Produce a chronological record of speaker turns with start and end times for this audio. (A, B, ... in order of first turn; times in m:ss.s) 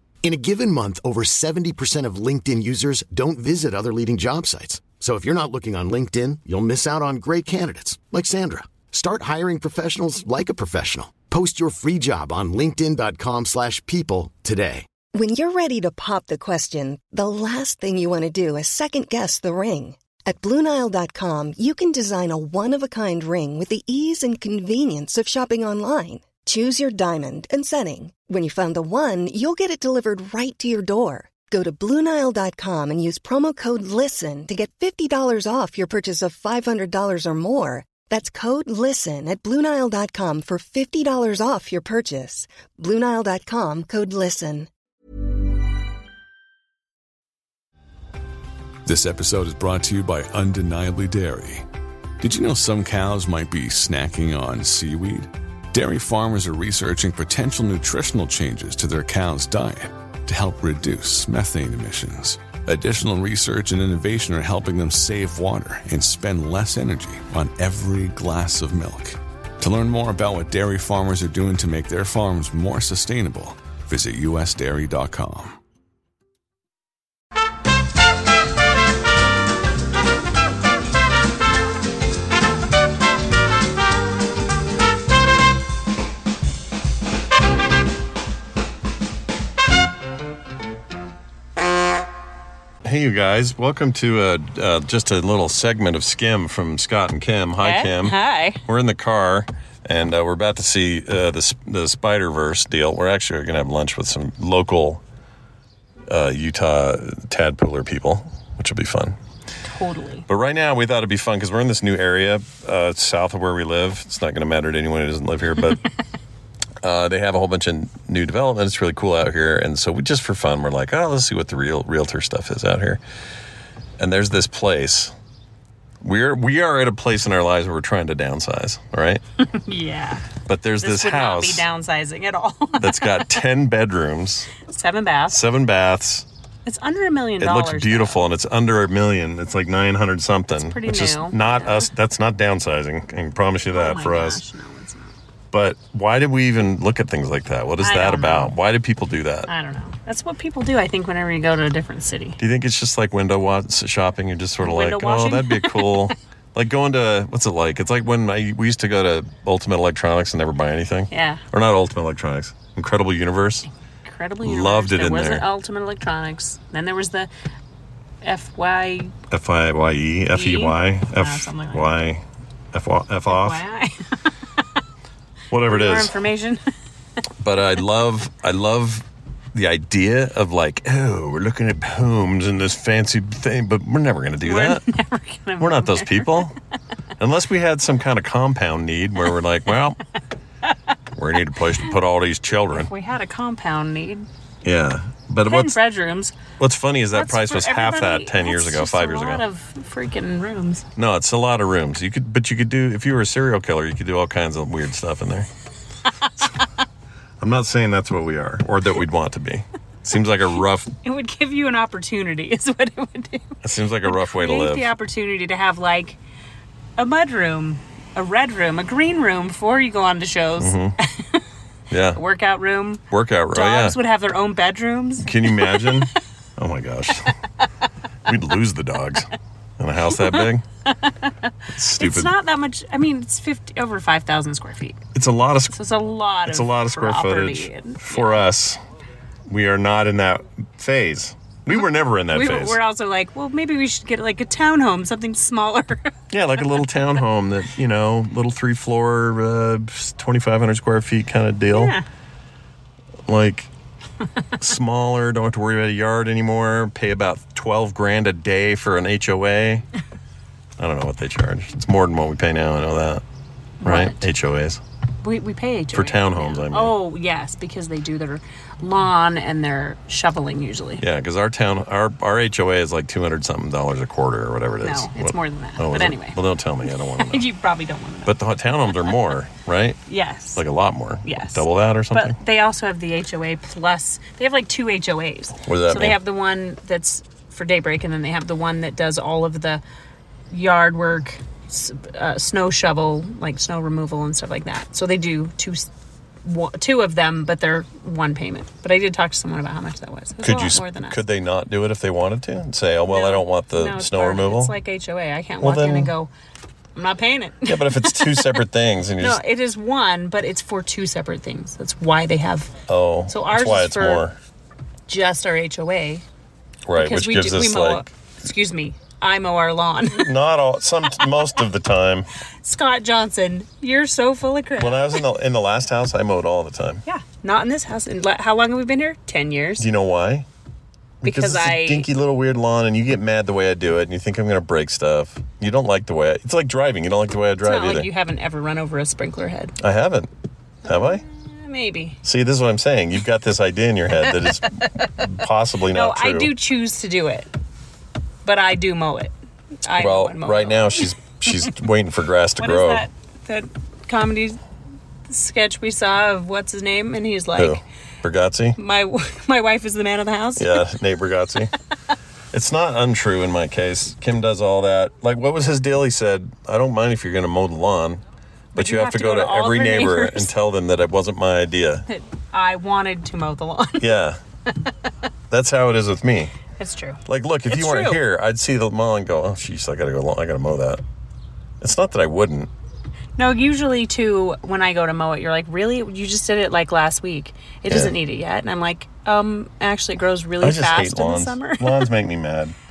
0:00.2-0:14.8 A
0:15.1-0:44.7 B
0:48.8-0:51.6 C
0:52.2-1:15.6 C
1:32.8-1:45.0 D
1:37.6-1:38.6 E
1:46.1-1:49.2 D
1:49.7-1:50.2 E
1:50.3-1:55.8 D
1:56.8-2:03.0 D
2:04.0-2:05.2 D
2:06.0-2:09.2 D
2:09.4-2:10.3 E
2:10.5-2:11.6 D
2:10.8-2:13.4 E
2:12.8-2:14.5 D
2:14.6-2:15.4 E
2:15.3-2:16.3 D
2:16.6-2:18.3 E
2:17.4-2:24.4 D
2:20.6-2:21.9 E
2:23.7-2:25.2 E
2:25.5-2:29.5 D
2:27.8-2:28.6 E
2:29.5-2:32.4 E
2:32.4-2:43.7 D
2:34.6-2:36.1 E
2:41.1-2:41.4 E
2:44.0-2:47.3 E
2:44.4-2:45.5 D
2:48.2-2:49.1 E
2:49.3-2:53.6 D
2:50.3-2:52.0 E
2:53.3-2:54.0 E
2:55.5-2:56.1 D
2:55.7-2:56.6 E
2:57.4-3:04.8 D
3:04.4-3:06.5 E
3:05.6-3:06.6 D
3:07.2-3:10.0 D
3:11.2-3:12.9 D
3:12.7-3:14.3 E
3:14.6-3:15.8 D
3:15.4-3:16.4 E
3:16.6-3:19.4 D
3:17.1-3:20.8 E
3:21.0-3:25.5 D
3:27.4-3:30.9 D
3:31.0-3:36.2 E
3:33.6-3:34.9 D
3:37.0-3:41.4 E
3:40.6-3:41.0 D
3:41.9-3:42.2 D
3:42.1-3:46.1 E
3:43.1-3:44.0 D
3:45.2-3:47.3 D
3:48.3-3:50.6 D
3:50.2-3:50.5 E
3:51.0-3:55.0 E
3:51.7-3:52.3 D
3:55.1-3:55.7 D
3:55.7-3:58.5 E
3:56.5-3:58.8 D
3:59.5-4:02.8 D
4:01.8-4:06.1 E
4:06.3-4:12.0 D
4:11.7-4:12.0 E
4:13.3-4:13.7 D
4:14.6-4:19.9 D
4:20.8-4:23.2 D
4:23.8-4:24.3 E
4:23.8-4:24.8 D
4:25.2-4:31.0 E
4:25.9-4:26.9 D
4:31.0-4:37.4 D
4:34.8-4:36.4 E
4:37.2-4:38.4 E
4:38.3-4:40.0 D
4:40.1-4:40.6 E
4:40.6-4:42.4 D
4:41.2-4:49.8 E
4:45.6-4:46.2 D
4:50.5-4:55.9 E
4:56.4-5:01.2 E
5:00.4-5:04.7 D
5:03.1-5:06.3 E
5:05.6-5:06.1 D
5:07.0-5:08.6 E
5:07.7-5:09.4 D
5:09.2-5:12.7 E
5:12.9-5:14.4 D
5:13.3-5:14.2 E
5:15.1-5:16.2 E
5:16.9-5:18.1 D
5:17.0-5:20.3 E
5:20.1-5:22.3 D
5:22.6-5:25.2 E
5:24.8-5:27.0 D
5:27.1-5:29.9 E
5:29.8-5:30.5 D
5:31.2-5:38.1 D
5:31.2-5:32.1 E
5:37.6-5:39.8 E
5:39.8-5:40.3 D
5:40.9-5:41.2 D
5:40.9-5:42.2 E
5:42.2-5:46.5 D
5:44.8-5:45.0 E
5:45.9-5:47.5 E
5:48.4-5:49.3 E
5:49.8-5:51.1 E
5:49.9-5:53.1 D
5:52.6-5:54.6 E
5:55.3-5:57.8 E
5:57.6-5:58.8 D
5:58.8-6:00.8 E
6:00.6-6:01.7 D
6:02.5-6:08.2 D
6:08.7-6:10.5 E
6:08.8-6:12.1 D
6:12.1-6:14.1 E
6:14.0-6:14.4 D
6:15.5-6:16.5 D
6:16.8-6:18.2 E
6:17.3-6:21.0 D
6:21.8-6:22.7 D
6:23.4-6:32.1 E
6:27.9-6:28.1 D
6:30.6-6:32.8 D